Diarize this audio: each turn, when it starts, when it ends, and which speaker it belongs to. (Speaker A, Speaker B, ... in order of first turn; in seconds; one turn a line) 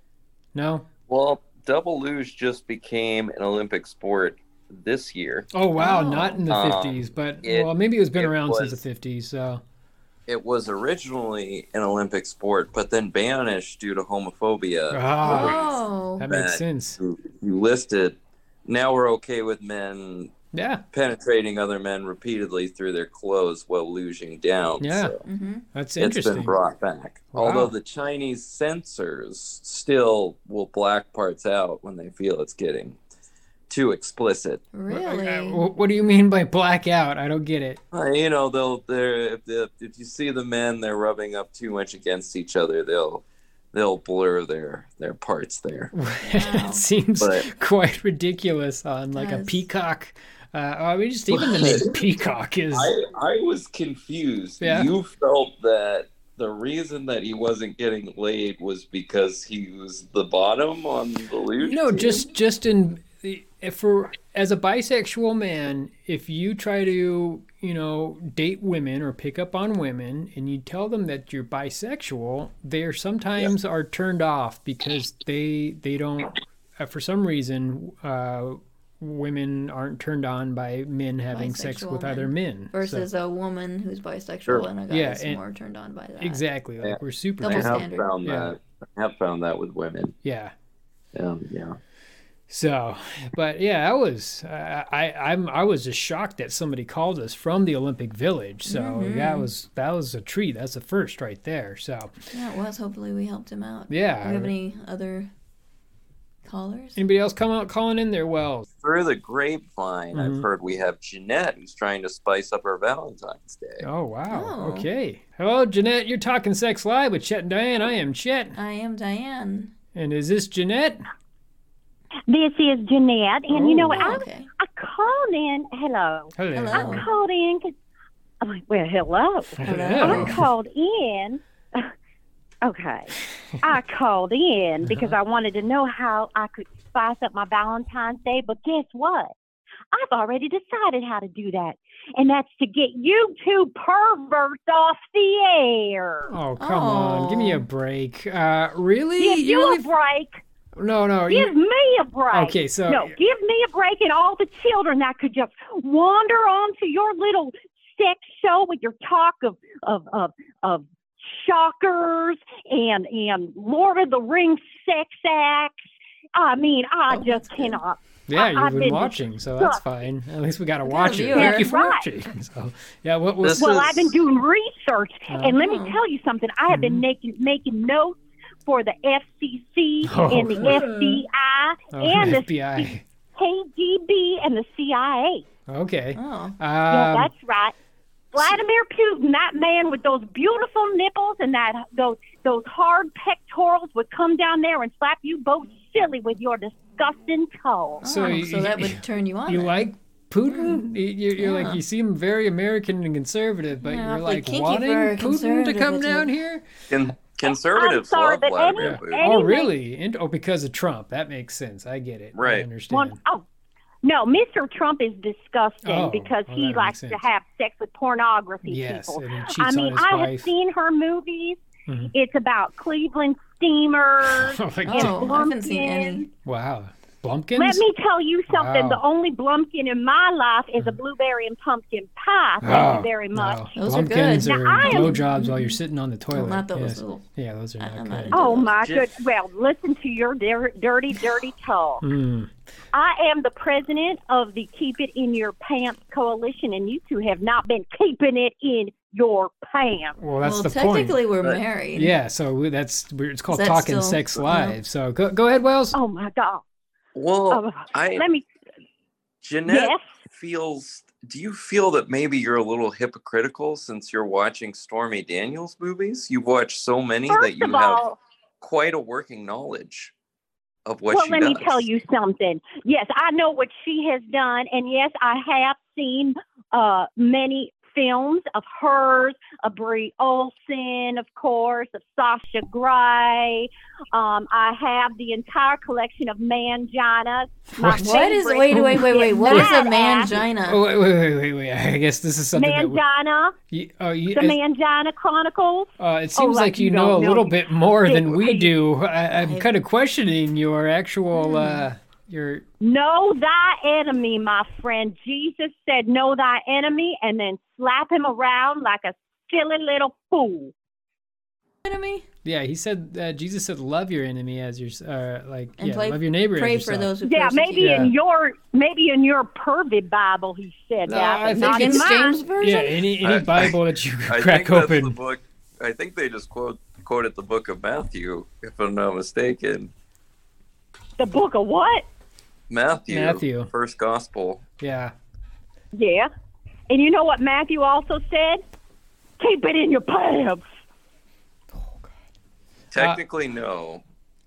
Speaker A: 0.5-0.9
Speaker B: 1.1-5.5
Speaker A: 5.5-9.6
Speaker C: 5.8-6.4
Speaker B: 6.5-8.8
Speaker B: 10.3-15.7
Speaker A: 14.9-15.6
Speaker C: 15.2-16.2
Speaker A: 16.2-17.0
Speaker B: 16.2-20.3
Speaker A: 20.5-20.8
Speaker B: 20.9-25.2
Speaker A: 24.8-25.1
Speaker C: 25.2-25.6
Speaker A: 25.7-26.5
Speaker B: 26.0-33.0
Speaker A: 27.3-27.7
Speaker B: 33.7-34.6
Speaker C: 34.7-35.6
Speaker A: 34.9-37.8
Speaker B: 37.9-45.9
Speaker A: 45.9-52.9
Speaker C: 46.2-46.8
Speaker B: 47.2-47.5
Speaker C: 49.1-49.6
Speaker B: 51.3-52.0
Speaker B: 52.7-62.2
Speaker A: 54.6-54.9
Speaker A: 61.6-83.1
Speaker C: 81.3-86.4
Speaker A: 84.9-85.4
Speaker A: 86.2-88.5
Speaker B: 86.8-90.1
Speaker C: 87.4-88.1
Speaker A: 90.2-90.5
Speaker B: 91.1-91.8
Speaker A: 92.5-102.1
Speaker C: 98.7-99.5
Speaker C: 102.3-105.3
Speaker A: 103.9-104.5
Speaker C: 106.4-107.0
Speaker A: 107.0-108.7
Speaker B: 108.8-113.9
Speaker A: 110.1-110.4
Speaker A: 113.8-118.6
Speaker C: 114.3-114.9
Speaker C: 118.5-119.7
Speaker A: 119.9-121.0
Speaker D: 122.3-127.7
Speaker A: 123.5-124.1
Speaker C: 124.0-124.5
Speaker A: 126.4-127.1
Speaker C: 126.5-127.1
Speaker D: 128.4-131.9
Speaker A: 129.6-130.4
Speaker C: 129.6-130.4
Speaker D: 132.6-139.3
Speaker A: 134.8-135.2
Speaker D: 139.9-146.3
Speaker A: 146.3-149.8
Speaker C: 146.6-147.6
Speaker D: 149.2-150.4
Speaker A: 150.8-151.5
Speaker D: 151.3-165.8
Speaker A: 152.3-153.1
Speaker D: 166.3-169.8
Speaker C: 167.1-167.8
Speaker A: 168.3-173.9
Speaker C: 170.8-171.7
Speaker D: 171.3-172.0
Speaker B: 173.4-174.2
Speaker D: 173.6-185.4
Speaker A: 175.3-175.6
Speaker C: 175.5-176.0
Speaker A: 176.7-177.0
Speaker A: 180.0-180.9
Speaker A: 181.9-183.0
Speaker A: 185.7-187.3
Speaker C: 186.1-186.6
Speaker D: 186.9-187.7
Speaker D: 188.3-198.0
Speaker C: 198.0-199.8
Speaker A: 198.0-206.7
Speaker C: 200.5-200.8
Speaker C: 201.4-201.8
Speaker C: 203.8-206.3
Speaker B: 206.9-209.2
Speaker D: 207.5-209.7
Speaker A: 208.8-213.2
Speaker B: 212.3-212.7
Speaker D: 212.9-213.4
Speaker D: 214.0-226.3
Speaker A: 215.8-217.2
Speaker A: 218.6-220.5
Speaker A: 221.9-222.1
Speaker A: 224.2-225.3
Speaker C: 224.8-226.3
Speaker A: 226.4-227.8
Speaker D: 227.6-233.7
Speaker A: 228.5-229.0
Speaker A: 232.6-238.5
Speaker C: 233.8-235.8
Speaker D: 234.4-235.2
Speaker C: 236.3-237.2
Speaker C: 237.8-238.7
Speaker D: 238.3-242.0
Speaker B: 238.8-239.1
Speaker A: 242.0-242.5
Speaker D: 242.9-250.2
Speaker A: 250.2-251.2
Speaker C: 250.4-252.1
Speaker A: 251.9-255.9
Speaker C: 253.5-254.8
Speaker D: 255.9-256.6
Speaker B: 257.1-258.2
Speaker D: 257.5-258.4
Speaker B: 259.4-268.0
Speaker D: 259.6-260.1
Speaker D: 267.3-268.2
Speaker B: 268.6-270.1
Speaker B: 270.9-271.9
Speaker D: 271.1-290.4
Speaker A: 287.8-289.8
Speaker C: 288.0-290.8
Speaker A: 290.5-293.0
Speaker D: 292.6-293.6
Speaker A: 293.7-294.6
Speaker D: 294.3-298.7
Speaker A: 296.0-302.6
Speaker C: 299.4-299.7
Speaker C: 301.3-301.9
Speaker D: 302.8-310.7
Speaker C: 311.8-312.2
Speaker A: 312.4-317.1
Speaker C: 315.8-318.1
Speaker D: 317.2-322.5
Speaker A: 317.8-318.1
Speaker A: 321.1-325.1
Speaker C: 321.6-322.9
Speaker B: 323.2-329.9
Speaker D: 331.2-332.0
Speaker B: 332.7-334.6
Speaker A: 333.1-333.7
Speaker A: 334.8-335.1
Speaker D: 335.9-336.3
Speaker D: 336.9-338.6
Speaker D: 339.4-340.6
Speaker B: 342.9-344.0